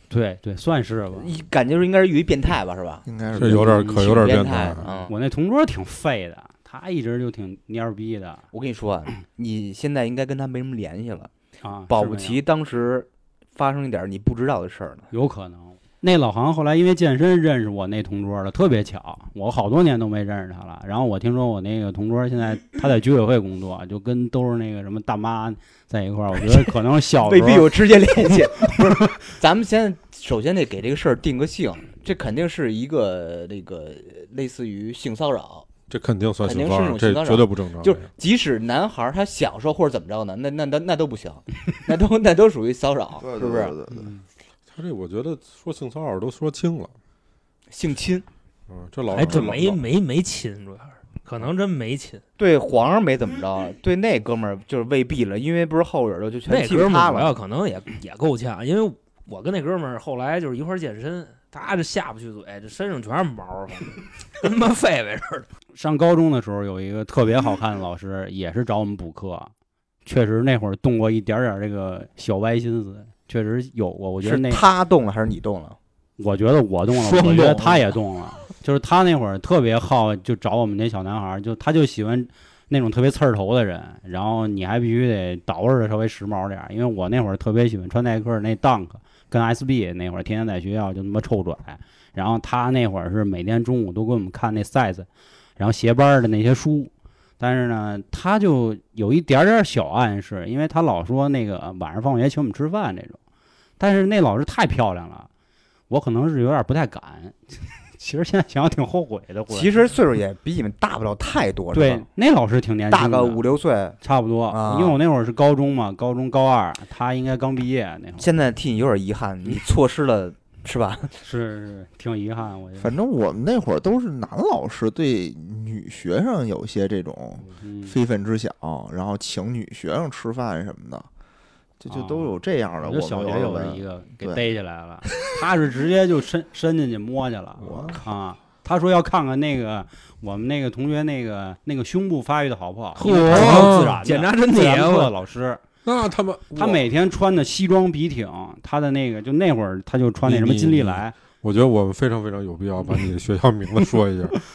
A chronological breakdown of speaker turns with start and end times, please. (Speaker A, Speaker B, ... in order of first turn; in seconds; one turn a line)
Speaker A: 0.1-1.3
Speaker B: 1.1-5.1
Speaker C: 3.0-3.9
Speaker D: 3.4-4.9
Speaker A: 3.6-4.1
Speaker A: 5.1-8.4
Speaker B: 8.5-11.3
Speaker A: 11.6-12.4
Speaker B: 11.9-15.1
Speaker A: 15.1-29.1
Speaker B: 27.1-35.7
Speaker D: 35.9-38.1
Speaker B: 36.4-43.8
Speaker C: 43.2-44.1
Speaker D: 44.7-46.9
Speaker B: 47.7-48.3
Speaker D: 48.7-49.8
Speaker E: 49.1-52.2
Speaker B: 52.4-57.4
Speaker E: 56.5-65.5
Speaker A: 65.8-69.5
Speaker A: 70.0-74.6
Speaker B: 74.2-75.8
Speaker A: 76.2-103.2
Speaker E: 77.0-77.9
Speaker A: 103.8-105.3
Speaker A: 105.9-109.7
Speaker B: 109.5-112.1
Speaker A: 111.7-113.4
Speaker B: 112.9-114.0
Speaker A: 114.0-118.3
Speaker B: 114.5-115.0
Speaker B: 118.2-121.1
Speaker A: 121.2-122.9
Speaker C: 122.8-131.1
Speaker A: 127.6-128.0
Speaker C: 131.8-134.4
Speaker A: 131.9-145.6
Speaker D: 137.6-138.0
Speaker C: 137.6-138.0
Speaker E: 143.0-145.1
Speaker D: 143.3-144.0
Speaker D: 145.8-146.8
Speaker A: 146.5-151.2
Speaker D: 150.2-154.4